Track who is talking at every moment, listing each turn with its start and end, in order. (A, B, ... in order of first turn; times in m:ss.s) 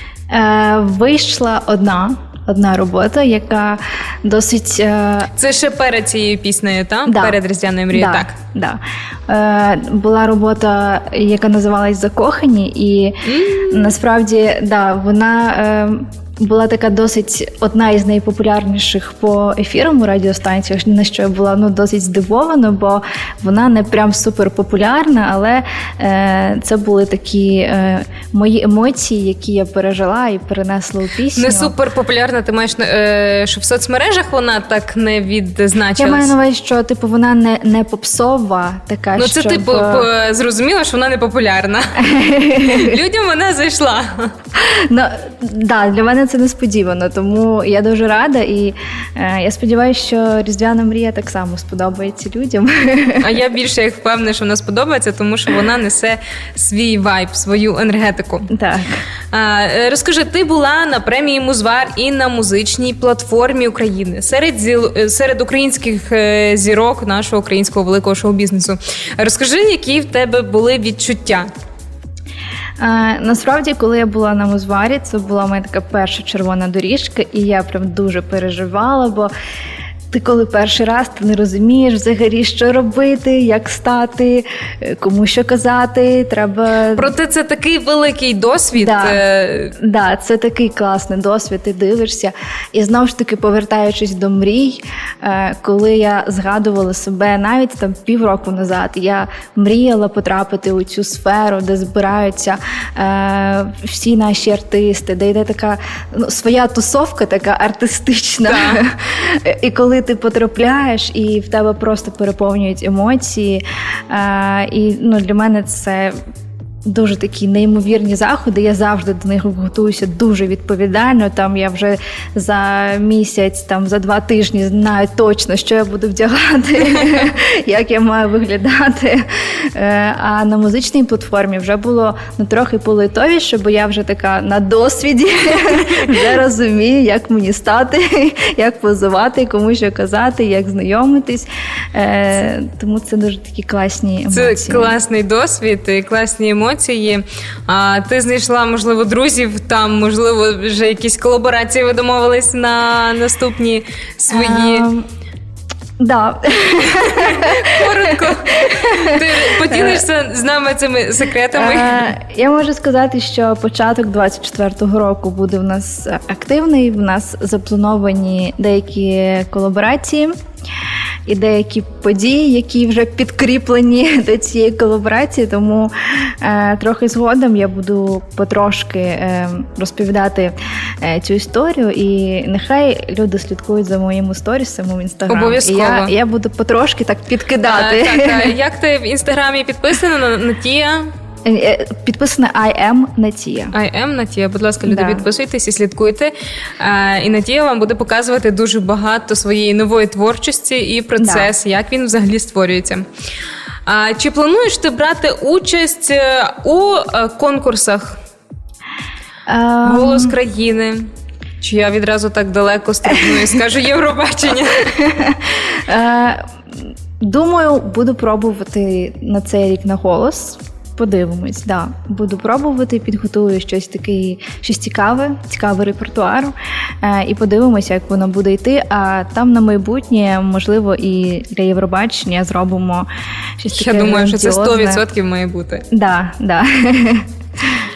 0:00.3-0:05.3 A
0:05.4-0:08.3 B
0:07.0-0:07.4 A
0:07.9-0:13.2 A
0:13.2-0:14.0 B
0:13.7-0:31.7 A
0:31.3-0:36.3 B
0:36.0-0:40.0 A
0:39.2-0:42.1 B
0:42.0-0:42.9 A
0:42.6-0:44.3 B
0:44.9-0:53.3 A
0:53.2-0:58.5 B
0:58.5-0:58.9 A
0:59.3-1:11.5 B
1:12.8-1:19.3 A
1:20.1-1:27.1 A
1:27.0-1:29.7 B
1:28.7-1:29.2 A
1:29.8-1:56.2 A
1:48.5-1:48.8 B
1:56.8-2:25.0 A
2:24.3-2:34.9 B
2:34.3-2:35.0 A
2:36.0-2:40.0 A
2:36.9-2:42.1 B
2:41.5-2:50.3 A
2:51.3-3:08.5 A
3:05.3-3:06.1 B
3:07.6-3:11.1 B
3:11.4-3:13.7 A
3:13.7-3:23.0 B
3:14.8-3:15.2 A
3:21.2-3:21.5 A
3:23.8-3:28.2 B
3:29.5-3:30.4 A
3:29.8-3:31.1 B
3:31.6-3:34.9 B
3:33.0-3:33.4 A
3:34.9-3:36.4 A
3:37.2-3:53.1 A
3:53.6-3:55.0 A
3:53.7-3:55.8 B
3:55.9-3:57.2 A